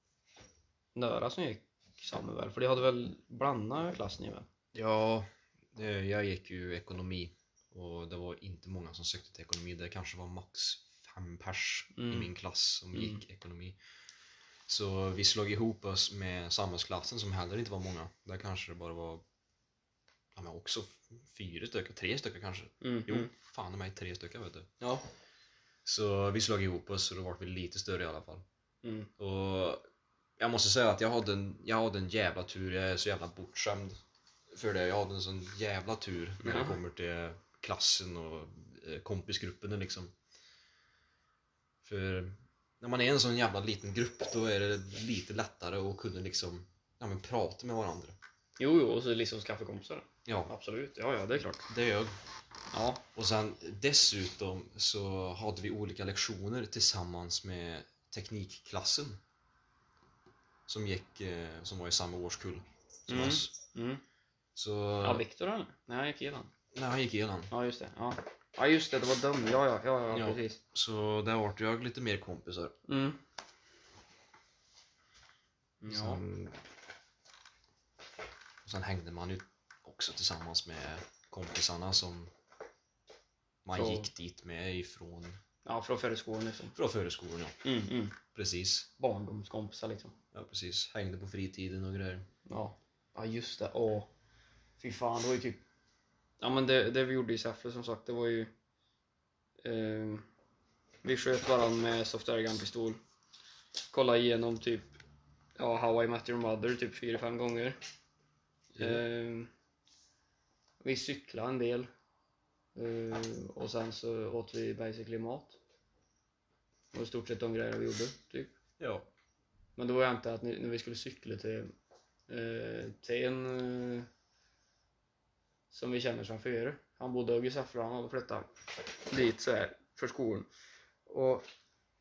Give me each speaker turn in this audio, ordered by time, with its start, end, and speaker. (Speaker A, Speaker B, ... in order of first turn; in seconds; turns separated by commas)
Speaker A: 0.9-4.5, Speaker B: 4.7-13.8, Speaker A: 11.9-12.3, Speaker A: 12.9-13.2, Speaker B: 14.7-19.2, Speaker B: 20.4-24.8, Speaker A: 22.8-23.3, Speaker B: 25.9-28.4, Speaker A: 28.8-29.1, Speaker B: 29.2-29.8, Speaker B: 30.4-34.0, Speaker B: 34.5-40.1, Speaker A: 36.4-36.8, Speaker B: 41.8-48.2, Speaker A: 48.6-51.7, Speaker B: 50.3-50.5, Speaker B: 51.7-52.1, Speaker A: 52.7-53.0, Speaker B: 53.1-59.2, Speaker B: 60.7-63.5, Speaker A: 63.1-64.0, Speaker B: 64.5-65.2, Speaker A: 65.0-66.5, Speaker B: 66.7-67.5, Speaker A: 67.5-70.6, Speaker B: 70.1-72.8, Speaker A: 72.9-73.2, Speaker A: 75.8-76.2, Speaker B: 75.9-76.6, Speaker B: 78.7-82.3, Speaker B: 83.7-85.4, Speaker A: 83.7-84.1, Speaker A: 85.7-86.8, Speaker B: 86.7-87.6, Speaker A: 87.6-88.2, Speaker B: 88.3-88.9, Speaker A: 89.0-90.2, Speaker B: 90.3-92.3, Speaker A: 92.5-94.1, Speaker A: 94.8-95.6, Speaker A: 96.4-98.5, Speaker A: 99.6-100.3, Speaker A: 101.0-103.0, Speaker A: 103.9-105.0, Speaker A: 105.6-107.8, Speaker B: 108.8-109.0, Speaker A: 108.8-109.5, Speaker A: 110.8-111.9, Speaker A: 112.8-115.6, Speaker A: 116.9-118.5, Speaker B: 118.8-119.1, Speaker A: 119.8-121.7, Speaker A: 122.3-124.1, Speaker A: 125.7-128.5, Speaker A: 129.1-130.5, Speaker A: 131.1-131.5